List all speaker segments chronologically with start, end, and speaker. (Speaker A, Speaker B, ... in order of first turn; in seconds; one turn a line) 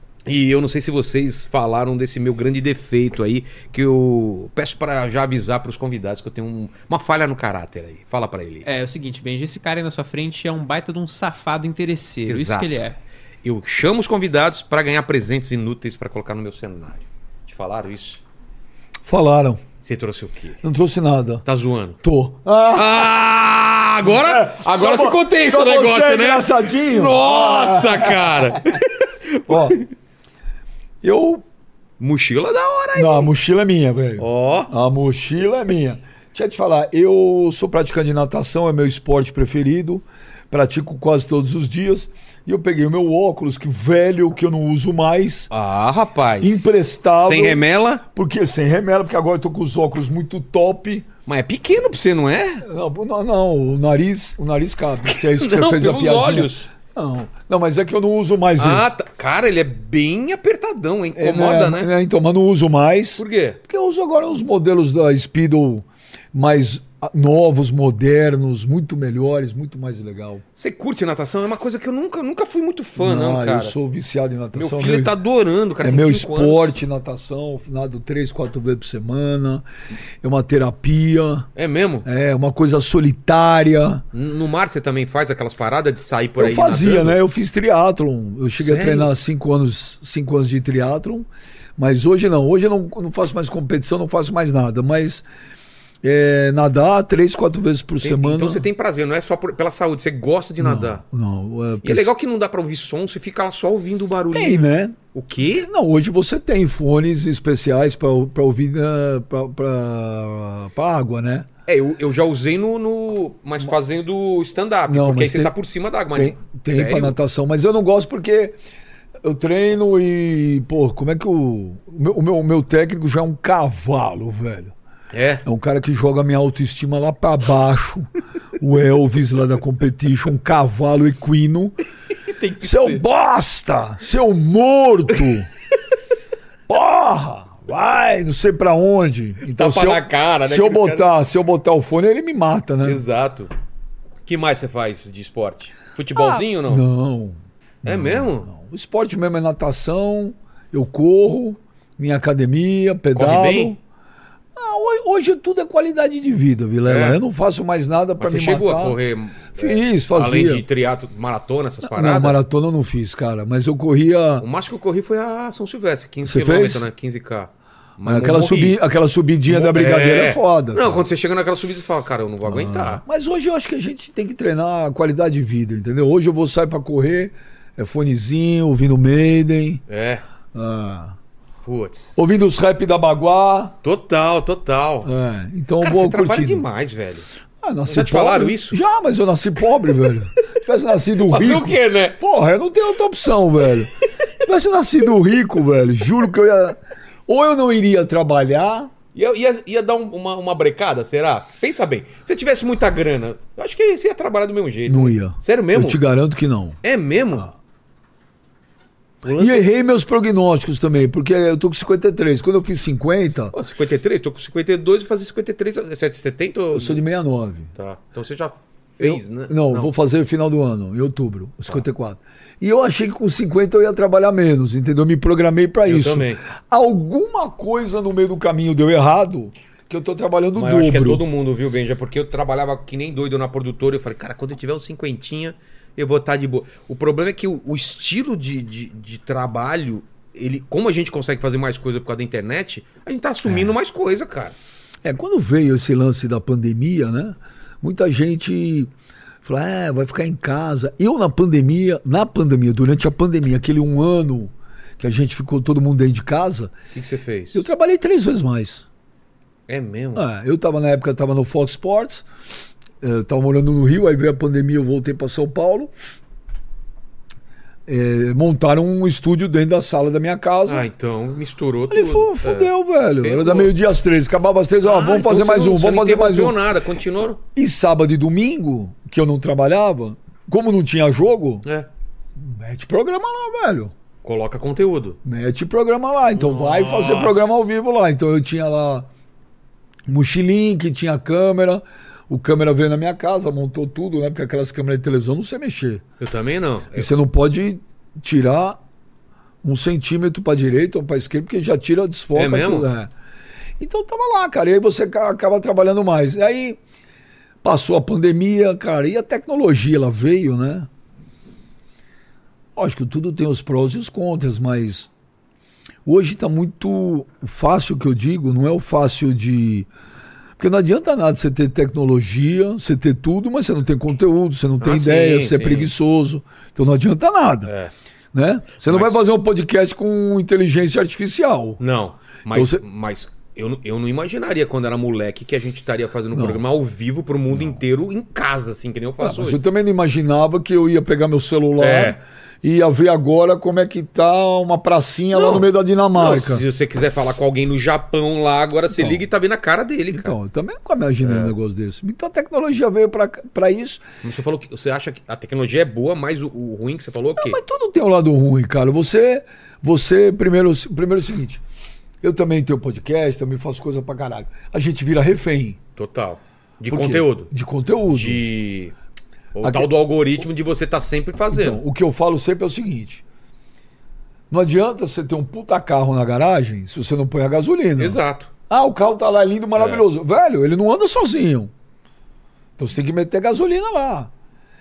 Speaker A: 0.2-8.7
Speaker B: 8.6-13.0
Speaker A: 12.3-12.8
Speaker A: 13.4-18.2
Speaker C: 19.0-19.6
Speaker A: 19.8-20.6
Speaker C: 20.6-21.4
Speaker A: 21.4-22.0
Speaker C: 22.0-23.1
Speaker A: 22.7-29.9
Speaker C: 24.0-28.6
Speaker C: 29.5-29.8
Speaker C: 31.0-31.4
Speaker A: 32.0-33.3
Speaker C: 33.0-45.5
Speaker A: 34.2-34.7
Speaker A: 45.5-48.0
Speaker C: 46.4-51.1
Speaker A: 51.2-52.6
Speaker C: 52.6-58.9
Speaker A: 55.1-56.7
Speaker A: 58.6-61.9
Speaker C: 61.1-70.4
Speaker A: 63.2-63.6
Speaker A: 70.5-73.8
Speaker C: 73.0-75.2
Speaker A: 74.5-76.8
Speaker C: 75.8-79.7
Speaker C: 80.2-81.5
Speaker A: 81.5-82.0
Speaker C: 82.0-84.0
Speaker A: 84.1-87.2
Speaker C: 86.4-95.2
Speaker A: 88.6-89.1
Speaker C: 96.0-98.7
Speaker A: 98.0-101.0
Speaker C: 100.6-102.1
Speaker A: 101.8-105.7
Speaker C: 104.3-111.5
Speaker A: 111.7-117.2
Speaker C: 114.9-115.5
Speaker C: 116.1-118.6
Speaker C: 119.2-124.7
Speaker A: 125.1-125.4
Speaker C: 125.4-128.1
Speaker C: 128.6-131.8
Speaker A: 132.1-133.0
Speaker C: 132.6-135.5
Speaker C: 136.7-143.0
Speaker A: 139.4-141.1
Speaker A: 142.8-143.5
Speaker A: 144.2-146.8
Speaker C: 146.1-153.8
Speaker A: 147.8-148.5
Speaker A: 153.1-153.8
Speaker C: 154.6-159.0
Speaker A: 156.8-157.2
Speaker A: 158.2-162.4
Speaker C: 159.5-160.6
Speaker C: 161.8-164.5
Speaker A: 164.4-168.8
Speaker C: 166.2-166.8
Speaker C: 168.0-171.1
Speaker A: 169.5-173.0
Speaker C: 172.4-179.8
Speaker A: 179.9-180.2
Speaker C: 180.5-181.2
Speaker A: 181.6-182.2
Speaker C: 182.2-183.8
Speaker A: 183.8-185.1
Speaker C: 185.0-186.6
Speaker A: 185.8-187.3
Speaker C: 187.6-198.9
Speaker A: 187.8-188.8
Speaker A: 191.2-192.2
Speaker A: 199.1-206.0
Speaker C: 204.9-206.8
Speaker A: 206.8-207.5
Speaker A: 209.2-209.7
Speaker C: 209.4-213.5
Speaker A: 213.5-217.0
Speaker C: 216.7-217.7
Speaker A: 217.7-219.9
Speaker C: 219.0-231.2
Speaker A: 225.8-226.4
Speaker A: 230.5-244.5
Speaker C: 243.4-243.8
Speaker C: 245.0-248.9
Speaker C: 249.4-256.7
Speaker A: 256.9-257.6
Speaker C: 257.5-258.9
Speaker A: 259.7-260.2
Speaker C: 260.1-262.2
Speaker C: 263.0-265.9
Speaker C: 267.9-270.9
Speaker A: 270.6-273.7
Speaker C: 271.9-276.6
Speaker A: 274.8-277.4
Speaker C: 277.5-281.6
Speaker C: 282.4-283.9
Speaker A: 284.2-285.2
Speaker C: 285.2-289.1
Speaker A: 286.4-287.5
Speaker C: 290.1-296.0
Speaker A: 296.2-297.1
Speaker C: 296.9-298.8
Speaker C: 299.6-303.1
Speaker A: 302.3-302.9
Speaker C: 303.8-306.8
Speaker C: 307.6-310.9
Speaker C: 312.8-315.1
Speaker C: 316.0-319.9
Speaker C: 320.6-327.7
Speaker A: 324.8-325.9
Speaker A: 327.6-327.9
Speaker C: 328.3-331.8
Speaker A: 328.8-329.2
Speaker A: 331.8-339.6
Speaker C: 332.5-332.8
Speaker C: 336.3-336.6
Speaker C: 339.2-346.6
Speaker A: 341.8-342.2
Speaker A: 345.3-350.3
Speaker C: 348.9-349.2
Speaker C: 350.1-354.0
Speaker A: 351.2-351.5
Speaker A: 354.2-357.6
Speaker C: 357.4-361.6
Speaker C: 362.2-365.8
Speaker A: 365.9-367.5
Speaker C: 366.9-368.4
Speaker A: 368.1-368.9
Speaker A: 369.5-371.8
Speaker C: 369.6-369.9
Speaker C: 371.5-373.2
Speaker C: 374.5-381.7
Speaker A: 378.0-378.5
Speaker A: 379.8-380.0
Speaker C: 382.8-384.3